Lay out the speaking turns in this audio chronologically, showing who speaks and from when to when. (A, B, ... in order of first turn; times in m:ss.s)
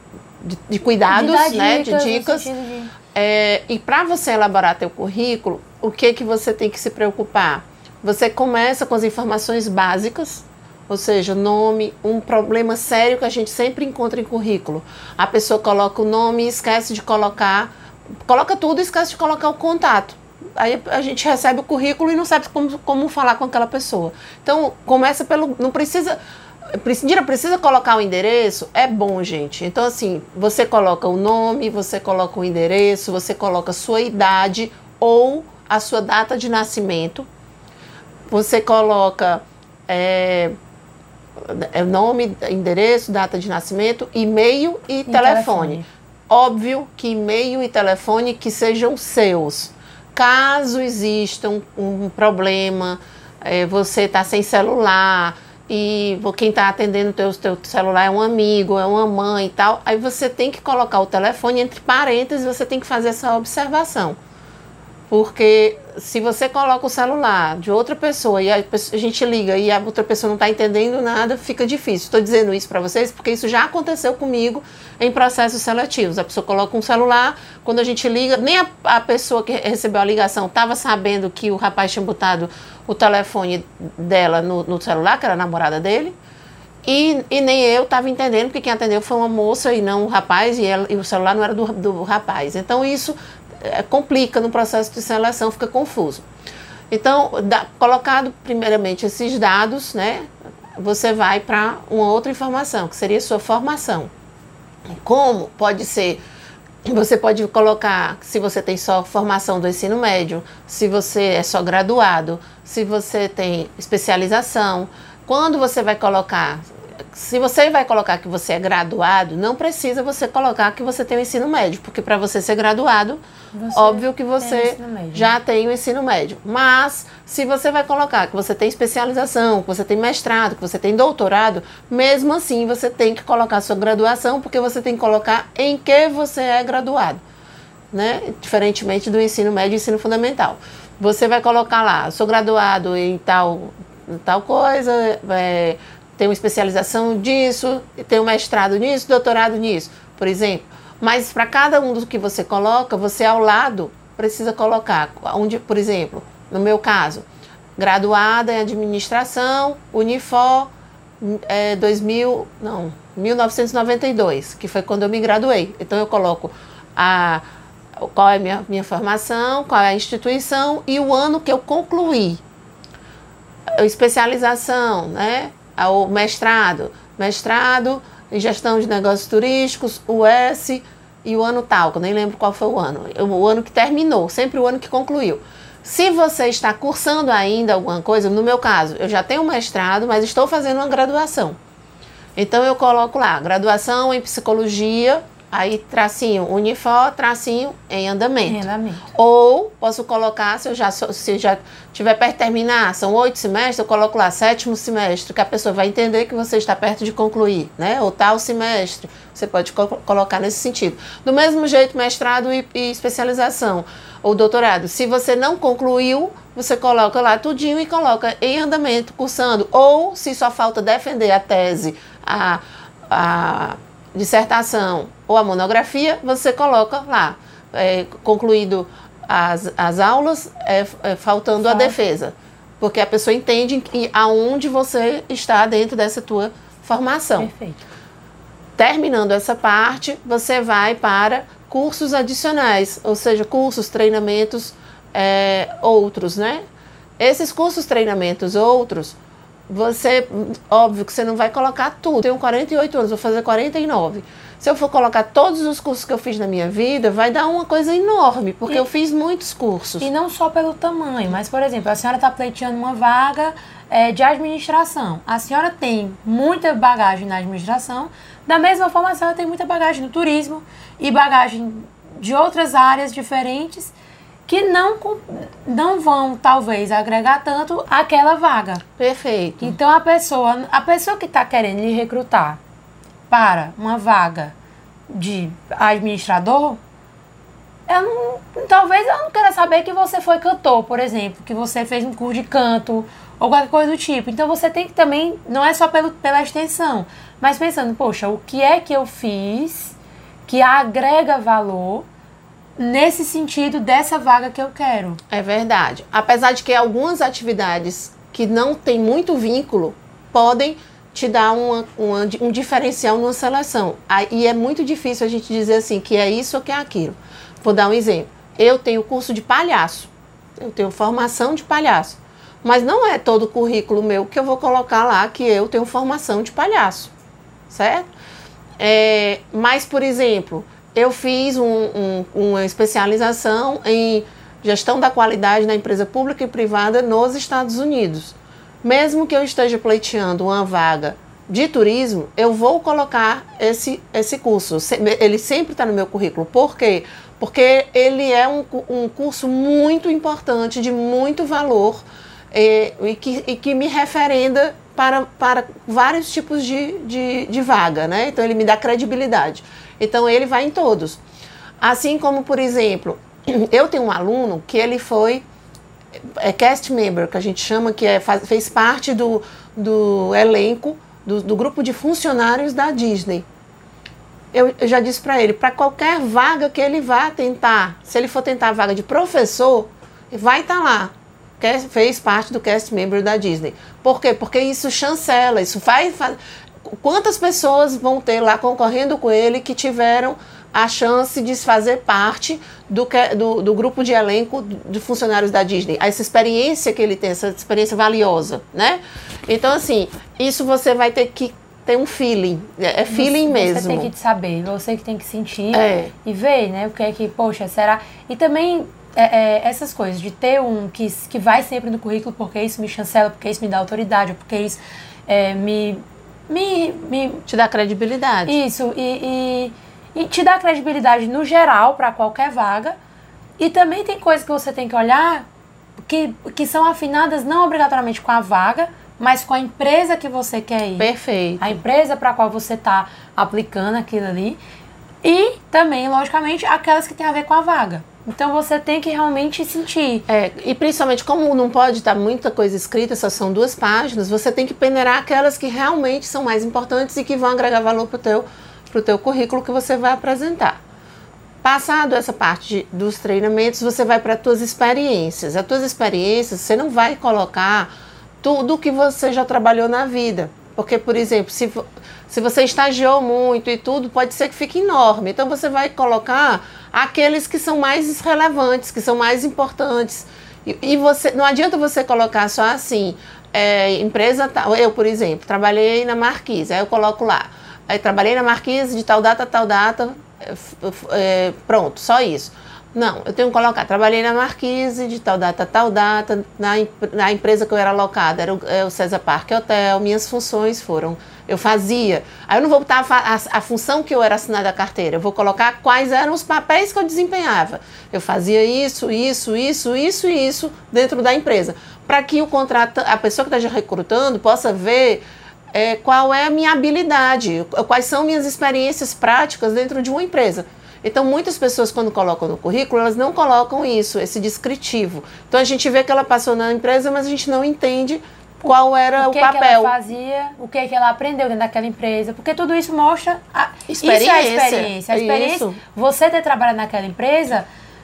0:00.4-0:02.5 A
0:01.1-0:02.9 B
0:03.1-0:17.7 A
0:18.2-0:26.2 A
0:26.7-0:37.3 A
0:38.3-0:40.5 A
0:41.4-1:04.2 A
0:45.0-0:45.9 B
1:05.1-1:26.2 A
1:26.8-1:36.2 A
1:36.9-1:44.1 A
1:44.9-1:46.2 A
1:46.8-2:03.2 A
2:03.5-2:05.4 B
2:03.7-2:17.2 A
2:17.9-2:47.4 A
2:48.0-2:52.4 A
2:53.7-3:11.6 A
3:12.4-3:57.5 A
3:18.4-3:19.0 B
3:51.7-3:52.0 B
3:57.4-3:57.8 B
3:58.8-4:06.6 A
4:07.2-4:09.2 A
4:09.7-4:20.1 A
4:20.0-4:33.9 B
4:34.5-4:38.8 B
4:39.0-4:39.8 A
4:39.6-4:42.6 B
4:43.3-4:44.5 B
4:45.1-4:46.8 B
4:47.9-5:02.1 B
5:02.8-5:05.2 B
5:05.3-5:27.1 A
5:27.7-5:28.1 A
5:28.8-6:01.2 A
6:01.8-6:05.4 A
6:06.2-6:13.4 A
6:14.5-6:44.1 A
6:43.1-6:57.4 B
6:45.7-6:46.1 A
6:57.5-6:58.6 A
6:58.4-7:03.0 B
7:03.6-7:05.5 B
7:06.1-7:14.6 B
7:11.0-7:11.8 A
7:15.2-7:20.2 B
7:20.3-7:30.8 A
7:31.6-7:37.9 A
7:38.4-8:39.9 A
8:38.7-8:47.6 B
8:43.9-8:45.8 A